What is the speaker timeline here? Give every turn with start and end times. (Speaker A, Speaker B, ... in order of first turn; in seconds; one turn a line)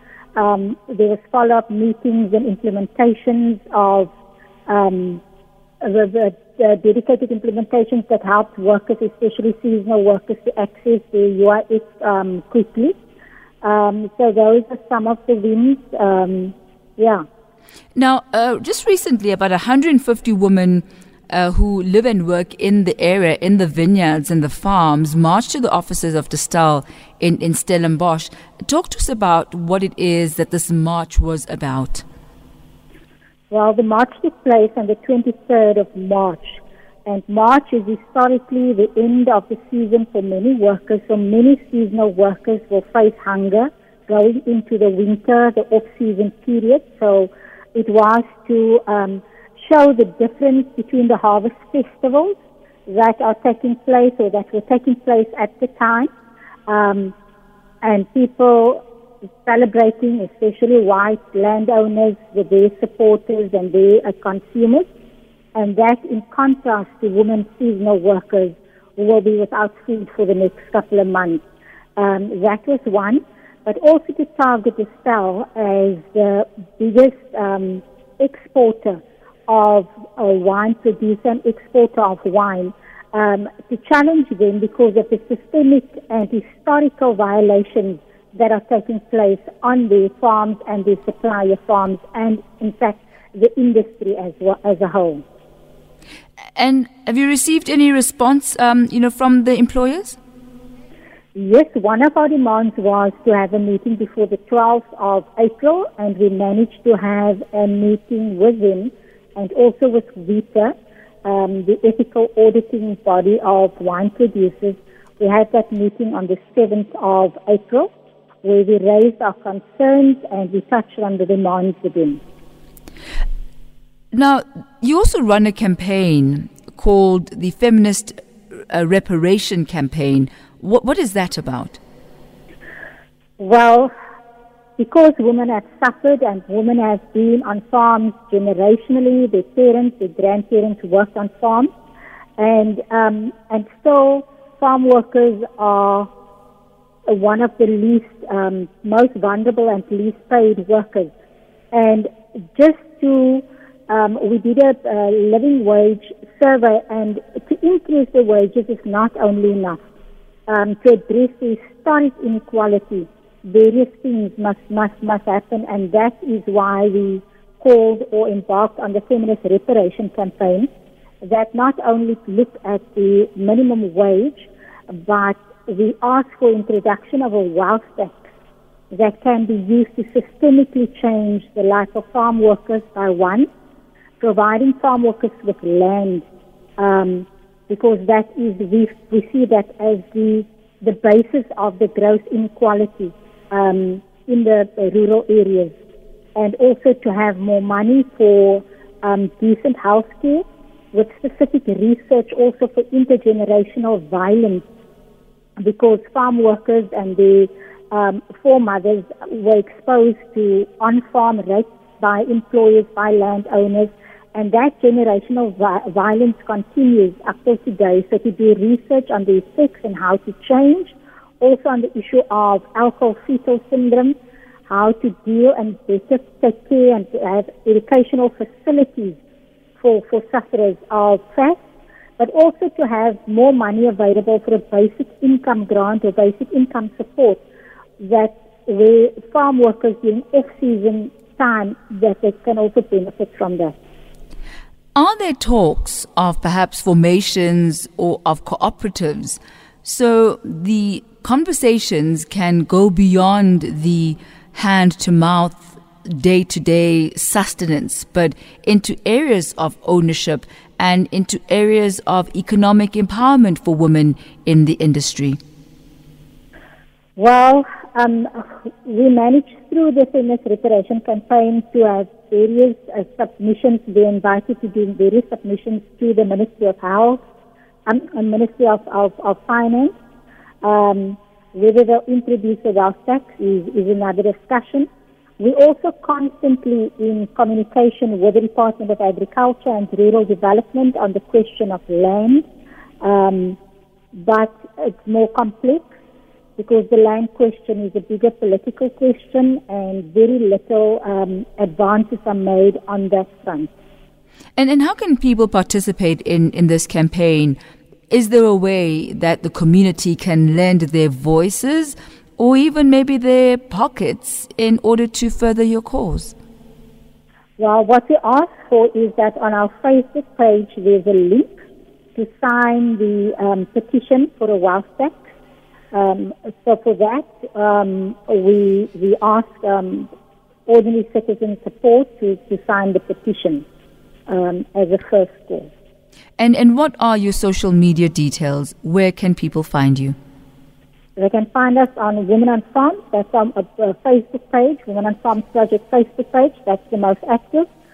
Speaker A: 0.4-4.1
Speaker A: 4.7-5.2
Speaker A: 5.8-13.0
Speaker A: 13.6-17.2
Speaker B: 17.9-32.0
Speaker A: 33.5-52.3
Speaker A: 52.9-56.1
Speaker A: 56.7-57.1
Speaker A: 57.8-58.8
Speaker A: 59.5-64.9
Speaker A: 65.5-71.4
Speaker A: 72.0-95.2
Speaker B: 96.5-100.2
Speaker A: 101.3-117.9
Speaker A: 118.4-122.2
Speaker B: 124.1-128.2
Speaker B: 128.7-131.8
Speaker A: 133.4-133.9
Speaker A: 134.8-141.7
Speaker A: 142.4-146.1
Speaker A: 147.1-151.1
Speaker A: 151.7-159.8
Speaker A: 160.5-170.7
Speaker A: 171.2-178.2
Speaker A: 178.9-183.5
Speaker A: 184.2-186.3
Speaker A: 186.8-195.7
Speaker A: 196.4-204.7
Speaker A: 205.6-224.2
Speaker A: 224.7-229.2
Speaker A: 229.8-231.6
Speaker A: 232.2-237.4
Speaker A: 238.0-243.7
Speaker B: 244.9-265.4
Speaker A: 267.2-277.2
Speaker A: 277.9-279.9
Speaker A: 280.6-284.9
Speaker A: 285.4-292.5
Speaker A: 293.0-293.6
Speaker A: 294.1-295.9
Speaker A: 296.6-303.7
Speaker B: 304.6-307.6
Speaker B: 308.1-316.3
Speaker A: 317.6-321.5
Speaker A: 322.2-325.3
Speaker A: 325.9-330.1
Speaker A: 330.7-333.6
Speaker A: 334.3-335.7
Speaker B: 336.4-340.2
Speaker A: 341.2-347.7